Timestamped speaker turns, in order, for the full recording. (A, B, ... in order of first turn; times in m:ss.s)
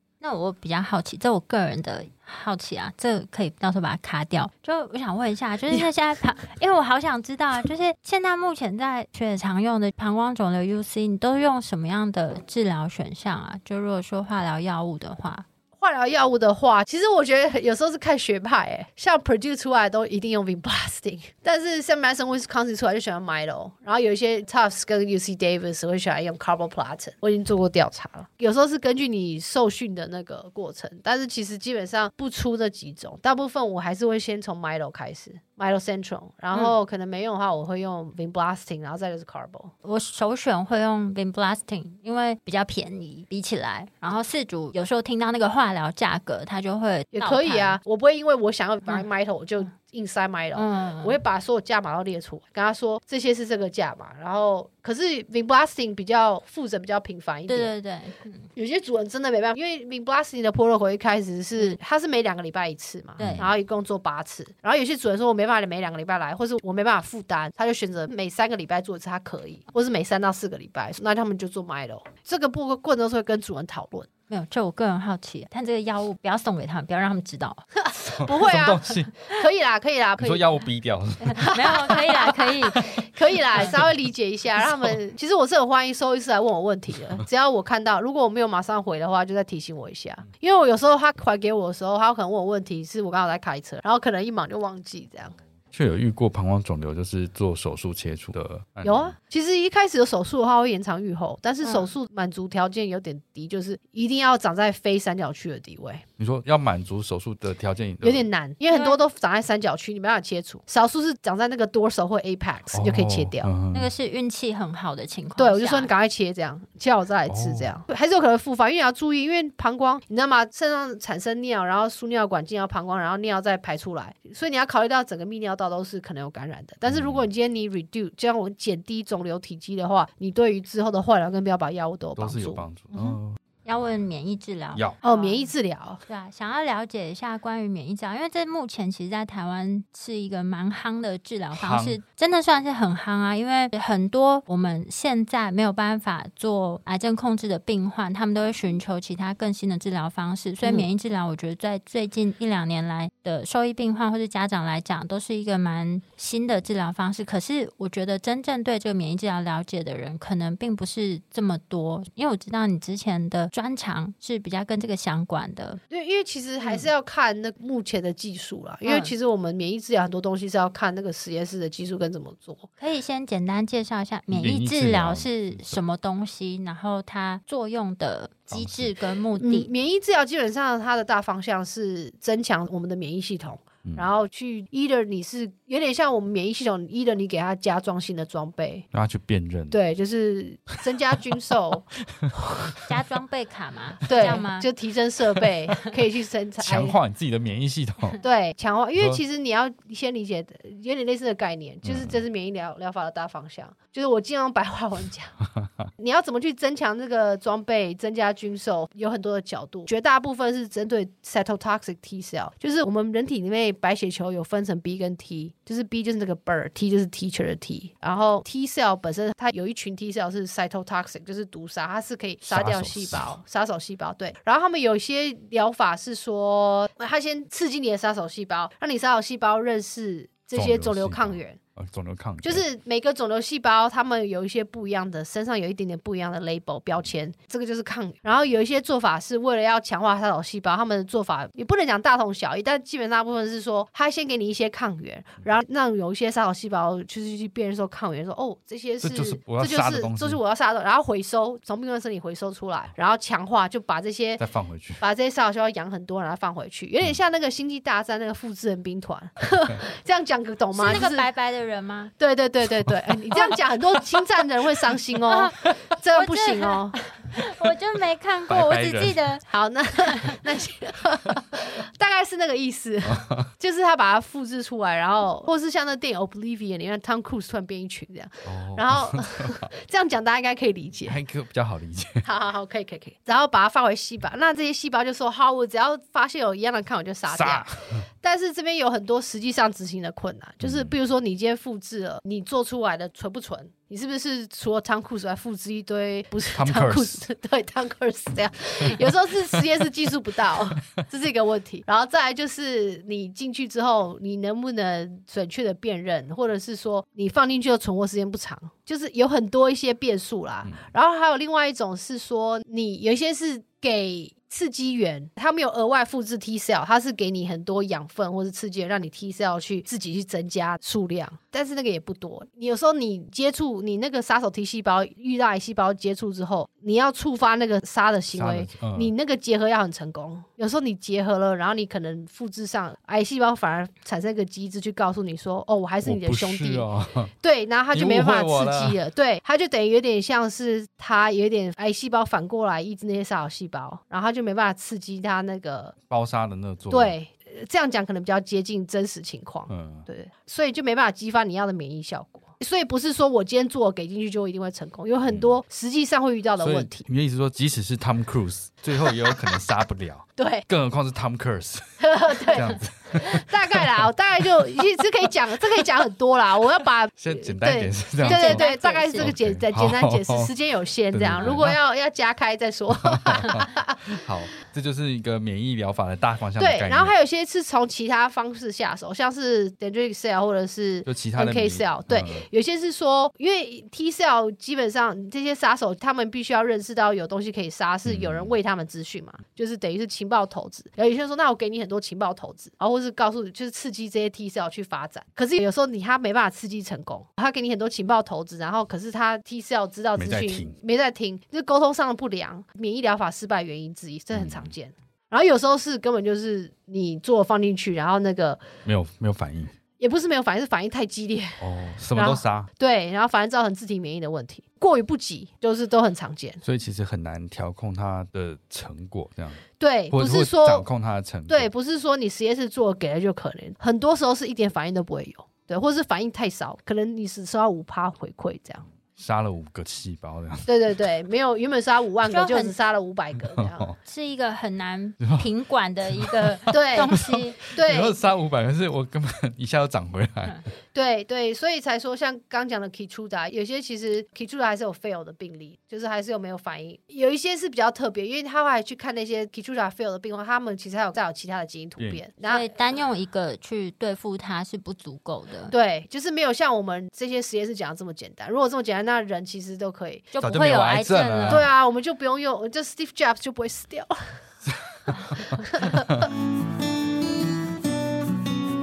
0:00.2-0:15.5 A
0:15.8-0:39.7 B
0:39.8-0:47.8 A
0:47.1-0:57.7 B
0:50.5-0:51.2 A
0:57.5-0:58.5 A
0:58.6-1:14.1 B
1:03.2-1:03.5 A
1:03.2-1:03.5 C
1:14.3-1:17.6 A
1:17.8-1:20.5 B
1:18.0-1:19.1 C
1:20.2-1:21.8 C
1:21.3-1:22.9 A
1:21.4-1:35.4 B
1:22.8-1:23.0 C
1:23.6-1:23.9 C
1:24.6-1:25.0 C
1:35.7-1:39.2 C
1:38.8-1:46.0 B
1:41.6-1:41.9 A
1:46.2-1:48.3 C
1:48.0-1:53.5 B
1:48.7-1:49.0 A
1:52.7-1:53.9 C
1:53.7-1:55.9 A
1:55.4-2:12.6 B
1:57.3-1:57.7 C
2:06.9-2:07.3 C
2:12.2-2:13.4 C
2:13.6-2:15.5 A
2:15.0-2:16.0 B
2:16.1-2:45.8 A
2:21.5-2:22.0 C
2:45.9-2:52.7 B
2:48.8-2:49.1 A
2:52.8-2:59.7 A
2:54.3-2:55.8 C
2:58.5-2:58.9 C
2:59.4-3:08.9 B
3:08.9-3:09.8 C
3:09.7-3:11.9 B
3:12.1-3:12.8 C
3:12.9-3:14.7 A
3:14.1-3:17.0 B
3:16.6-3:18.2 C
3:18.2-3:25.4 B
3:19.0-3:19.2 C
3:21.8-3:22.2 C
3:25.4-3:25.9 C
3:26.0-3:51.6 B
3:42.4-3:43.4 C
3:50.6-3:52.6 C
3:52.4-4:14.4 B
4:09.0-4:10.4 C
4:14.4-4:15.0 C
4:15.0-4:21.3 B
4:20.8-4:22.1 A
4:22.2-4:27.0 B
4:25.3-4:25.6 A
4:26.1-4:29.4 A
4:28.5-4:29.2 C
4:29.4-4:41.2 B
4:30.1-4:30.4 A
4:33.0-4:33.5 C
4:38.5-4:39.7 C
4:41.1-4:42.2 C
4:42.2-4:47.7 B
4:47.3-4:48.0 C
4:48.2-5:36.9 B
4:50.6-4:51.0 C
4:56.5-4:57.2 C
5:28.3-5:29.1 C
5:36.0-5:37.3 C
5:37.4-5:46.0 B
5:37.9-5:39.0 C
5:46.1-5:47.2 C
5:46.9-5:57.0 B
5:49.7-5:50.1 C
5:55.3-5:55.6 C
5:56.6-6:05.0 C
6:00.4-6:00.7 B
6:02.0-6:14.2 B
6:07.2-6:10.5 C
6:08.2-6:09.3 A
6:11.1-6:11.8 C
6:13.0-6:17.1 C
6:16.6-6:48.6 B
6:21.1-6:22.5 C
6:28.0-6:28.6 C
6:40.2-6:40.8 C
6:44.3-6:44.7 C
6:48.8-6:49.8 C
6:50.0-6:56.6 B
6:51.6-6:52.7 C
6:56.6-7:01.7 C
6:59.8-7:00.9 B
7:01.5-7:08.9 B
7:09.2-7:11.0 C
7:10.7-7:13.9 B
7:12.3-7:12.8 A
7:13.4-7:14.0 C
7:14.0-7:17.6 A
7:15.2-7:15.5 C
7:16.1-7:20.6 C
7:16.7-7:18.2 B
7:20.9-7:32.8 B
7:32.4-7:35.7 A
7:35.7-7:40.3 B
7:40.3-7:41.7 A
7:40.4-7:41.7 C
7:41.5-7:44.2 B
7:44.7-7:46.3 C
7:45.6-7:46.2 B